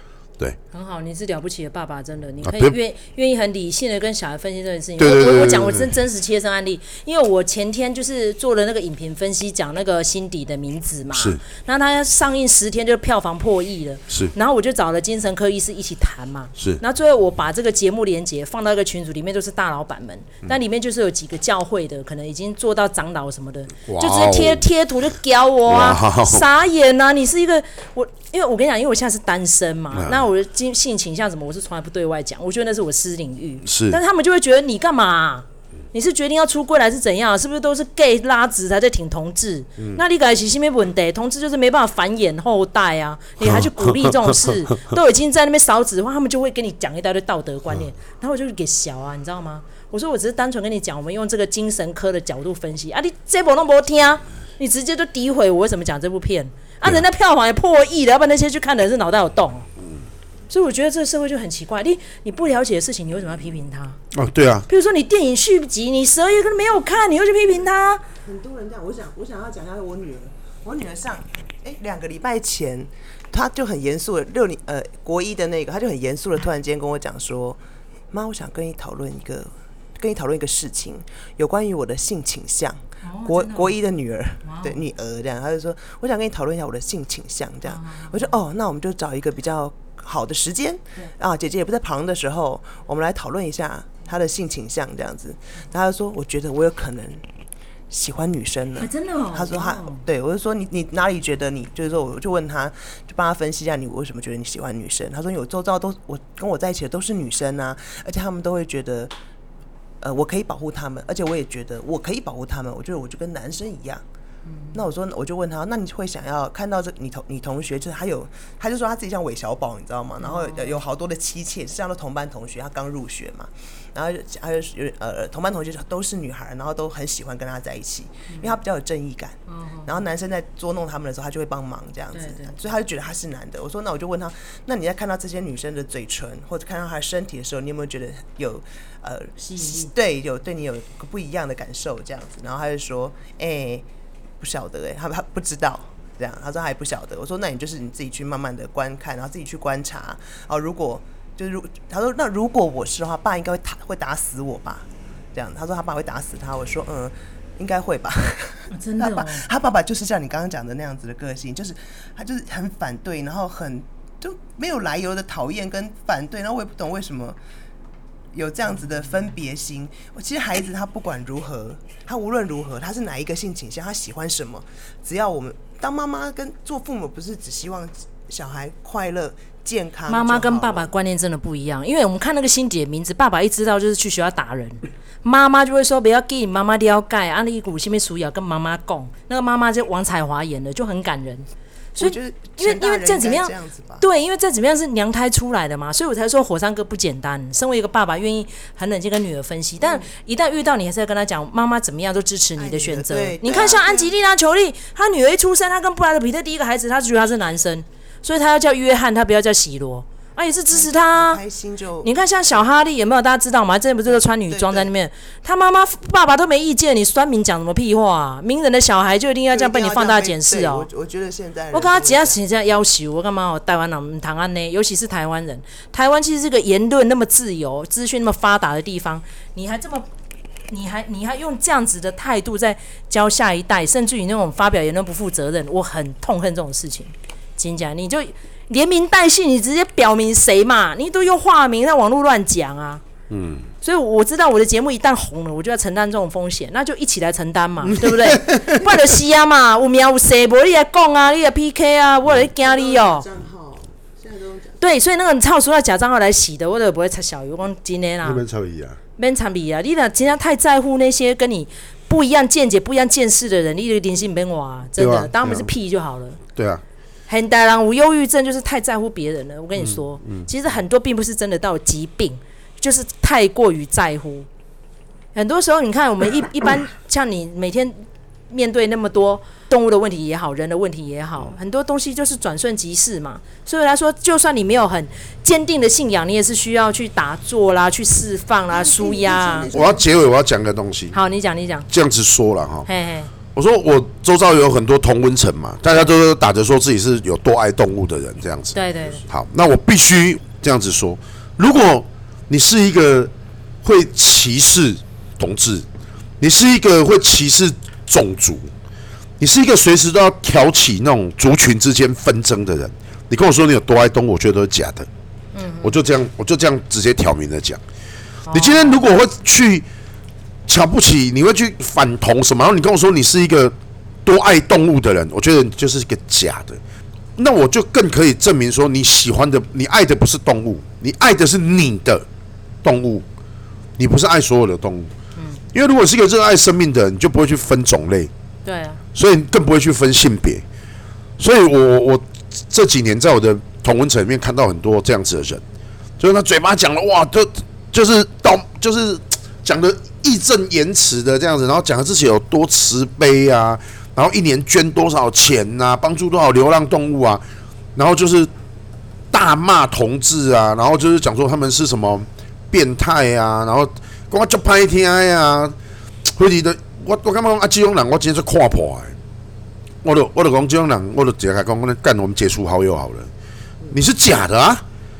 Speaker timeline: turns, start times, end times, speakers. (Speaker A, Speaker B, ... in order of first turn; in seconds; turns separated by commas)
Speaker A: 0.7-59.7, Speaker B: 2.4-2.8, Speaker B: 5.0-6.0, Speaker B: 11.1-11.4, Speaker B: 14.1-14.3, Speaker B: 23.9-24.6, Speaker B: 25.7-26.5, Speaker B: 29.9-30.2, Speaker B: 33.6-34.0, Speaker B: 43.4-44.5, Speaker A: 60.5-64.0, Speaker B: 64.1-64.7, Speaker A: 64.7-68.0, Speaker C: 68.2-77.6, Speaker C: 78.1-97.2, Speaker A: 83.0-83.8, Speaker A: 84.4-84.8, Speaker A: 87.7-88.4, Speaker C: 97.9-109.1, Speaker A: 98.8-100.0, Speaker C: 110.0-114.0, Speaker A: 114.5-114.9, Speaker C: 114.7-143.8, Speaker A: 120.2-120.8, Speaker A: 129.5-130.0, Speaker A: 132.1-132.6, Speaker A: 139.4-139.9, Speaker C: 144.4-167.4, Speaker A: 158.7-159.4, Speaker C: 168.3-180.9, Speaker A: 180.1-191.5, Speaker C: 192.0-194.0, Speaker A: 192.0-211.4, Speaker C: 202.6-204.1, Speaker C: 210.7-212.6, Speaker A: 212.0-220.9, Speaker C: 214.1-214.9, Speaker C: 219.5-222.4, Speaker A: 221.7-230.1, Speaker A: 230.7-243.0, Speaker B: 243.3-243.7, Speaker A: 243.8-253.3, Speaker B: 247.8-249.0, Speaker C: 252.5-254.8, Speaker A: 254.8-258.4, Speaker B: 258.2-259.0, Speaker A: 259.2-266.4, Speaker B: 265.0-265.7, Speaker B: 266.6-266.8, Speaker A: 267.3-274.5, Speaker B: 269.8-270.5, Speaker A: 275.4-289.7, Speaker C: 288.7-290.2, Speaker B: 289.7-291.2, Speaker A: 291.1-291.9, Speaker B: 291.9-292.9, Speaker A: 292.9-293.3, Speaker B: 293.5-303.3, Speaker A: 298.7-299.2, Speaker B: 303.8-305.9, Speaker B: 306.4-308.7, Speaker B: 309.4-315.1, Speaker A: 315.5-316.0, Speaker B: 315.8-317.8, Speaker A: 318.5-319.0, Speaker B: 318.5-319.9, Speaker B: 320.7-323.7, Speaker B: 324.2-326.8, Speaker B: 327.4-332.2, Speaker B: 332.8-333.2, Speaker B: 334.0-335.1, Speaker A: 335.4-335.6, Speaker B: 335.7-338.3, Speaker A: 338.6-339.0, Speaker B: 339.1-340.6, Speaker B: 341.4-345.6, Speaker B: 346.2-357.4, Speaker B: 358.0-358.5, Speaker B: 359.3-365.8, Speaker B: 366.4-369.1, Speaker B: 370.0-373.3, Speaker B: 373.9-374.8